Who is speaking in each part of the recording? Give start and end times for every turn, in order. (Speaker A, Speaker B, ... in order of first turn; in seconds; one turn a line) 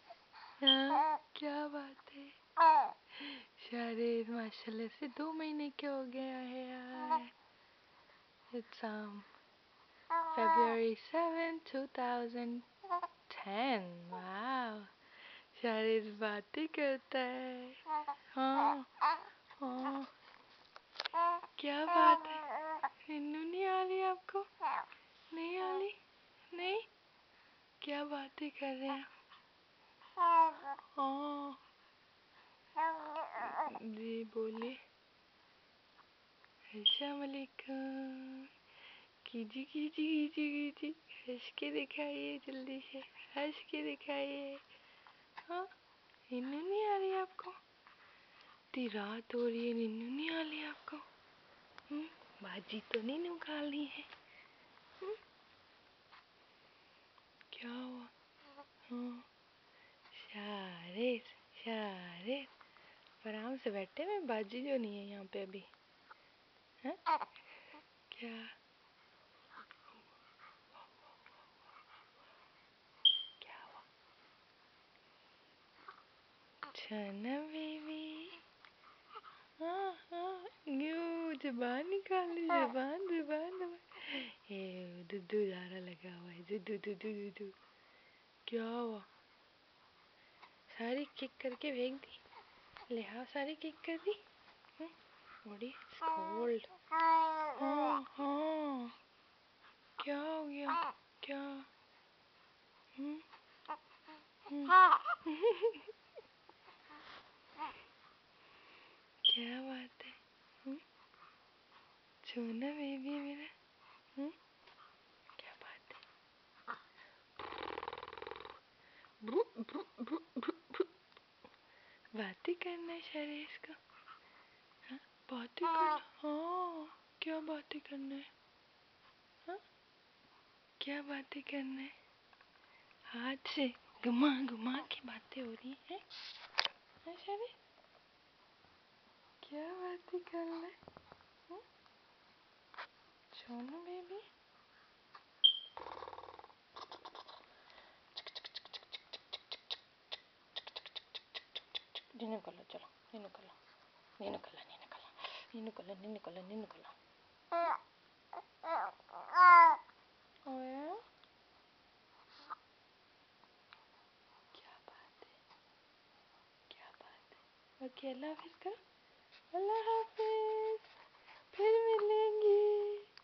Speaker A: 0.6-2.4
Speaker A: 3.2-7.3
Speaker A: 8.5-9.3
Speaker A: 10.3-12.7
Speaker A: 13.3-14.9
Speaker A: 15.5-18.9
Speaker A: 19.6-20.1
Speaker A: 21.6-22.5
Speaker A: 23.0-24.5
Speaker A: 25.3-26.0
Speaker A: 26.5-26.9
Speaker A: 27.8-29.1
Speaker A: 30.8-31.6
Speaker A: 33.3-34.8
Speaker A: 36.7-38.5
Speaker A: 39.2-44.6
Speaker A: 46.3-47.6
Speaker A: 48.7-51.0
Speaker A: 51.9-54.1
Speaker A: 57.5-58.1
Speaker A: 58.9-59.3
Speaker A: 60.1-62.5
Speaker A: 63.2-65.7
Speaker A: 68.1-68.5
Speaker A: 73.4-73.8
Speaker A: 76.7-78.4
Speaker A: 79.6-87.5
Speaker A: 88.5-89.1
Speaker A: 90.7-92.2
Speaker A: 92.9-94.2
Speaker A: 95.4-96.7
Speaker A: 97.5-98.9
Speaker A: 100.0-101.7
Speaker A: 103.0-103.2
Speaker A: 104.5-105.9
Speaker A: 109.2-110.8
Speaker A: 112.2-113.5
Speaker A: 115.3-116.0
Speaker A: 119.2-120.9
Speaker A: 122.1-123.8
Speaker A: 124.9-128.3
Speaker A: 130.8-132.0
Speaker A: 133.1-136.0
Speaker A: 137.0-137.6
Speaker A: 139.4-140.8
Speaker A: 143.3-144.2
Speaker A: 151.9-153.6
Speaker A: 154.2-156.9
Speaker A: 160.5-161.0
Speaker A: 164.5-165.4
Speaker A: 166.7-168.8
Speaker A: 169.5-170.9
Speaker A: 171.5-173.1